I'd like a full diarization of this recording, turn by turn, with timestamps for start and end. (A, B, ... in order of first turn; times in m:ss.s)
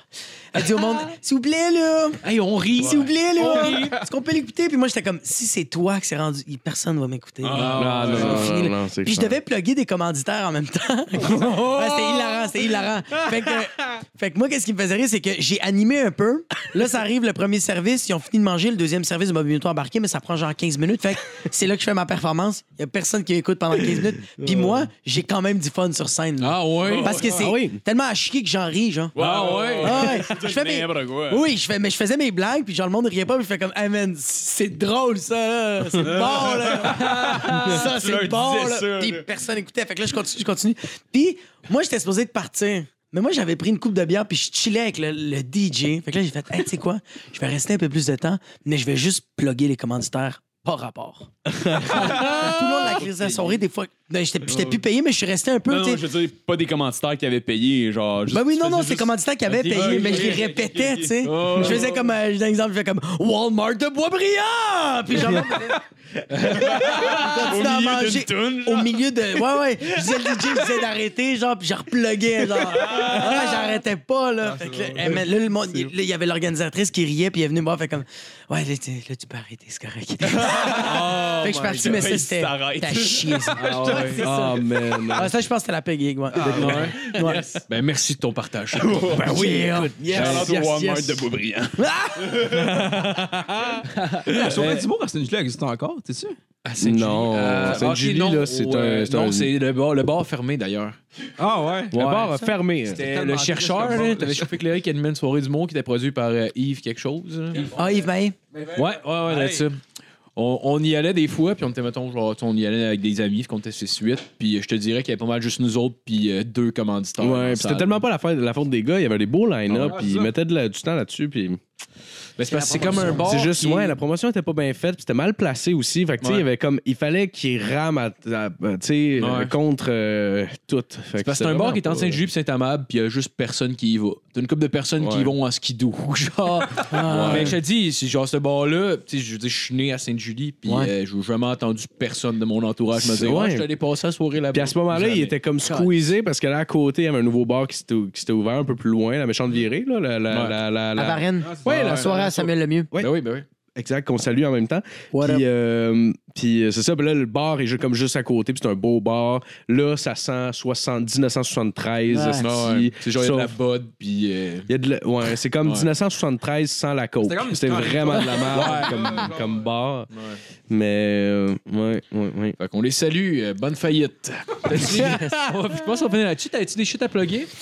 0:00.5-0:02.2 A
0:02.2-0:04.0 B
0:02.8-0:29.1 A
0:03.4-0:03.8 C
0:07.4-0:08.3 D
0:07.5-0:08.5 B
0:07.7-0:09.4 E
0:24.4-0:24.8 E
0:26.4-0:27.4 B
0:26.8-0:27.3 D
0:27.4-0:27.8 E
0:29.1-0:31.5 D
0:29.2-0:30.2 B
0:29.8-0:56.0 A
0:36.0-0:39.3 D
0:37.2-0:37.5 B
0:51.5-0:53.0 E
0:52.0-0:53.6 D
0:55.7-1:01.8 D
0:58.3-1:05.9 A
0:59.5-1:00.5 B
1:01.2-1:02.0 B
1:05.2-1:05.5 E
1:06.3-1:07.6 B
1:06.4-1:27.4 A
1:06.5-1:09.1 D
1:12.8-1:13.3 D
1:14.4-1:15.2 C
1:20.2-1:24.4 D
1:23.6-1:24.3 B
1:24.2-1:25.3 E
1:26.3-1:27.4 C
1:26.4-1:29.0 B
1:27.2-1:27.6 D
1:28.7-1:32.5 D
1:29.1-1:30.2 A
1:30.0-1:31.1 C
1:30.1-1:30.6 B
1:31.8-1:32.6 A
1:32.4-1:34.6 E
1:33.9-1:34.8 B
1:34.3-1:36.4 C
1:36.6-1:41.0 B
1:36.8-1:39.5 E
1:41.4-1:44.6 C
1:41.9-1:43.1 E
1:41.9-1:47.7 B
1:47.6-1:47.9 C
1:47.8-1:48.4 A
1:48.5-1:49.6 C
1:48.7-1:49.8 B
1:50.4-1:58.0 B
1:57.2-2:01.6 E
1:59.7-2:00.0 B
1:59.9-2:00.3 C
2:02.4-2:04.0 B
2:02.4-2:03.4 A
2:02.9-2:12.2 E
2:06.2-2:06.5 B
2:09.2-2:09.5 B
2:11.2-2:25.8 B
2:15.0-2:15.3 E
2:16.9-2:17.6 A
2:16.9-2:17.6 E
2:20.6-2:20.9 A
2:23.0-2:23.7 E
2:24.5-2:33.1 E
2:30.3-2:30.6 B
2:31.0-2:32.9 A
2:31.4-2:32.0 C
2:31.6-2:32.1 B
2:32.9-2:33.4 B
2:33.7-2:43.5 E
2:35.1-2:35.4 A
2:42.1-2:42.5 A
2:42.4-2:44.7 B
2:44.7-2:50.1 E
2:45.6-2:45.9 B
2:47.2-2:49.3 B
2:47.7-2:49.5 C
2:50.1-2:50.4 B
2:50.7-2:52.6 E
2:52.6-2:57.5 B
2:54.7-2:55.7 E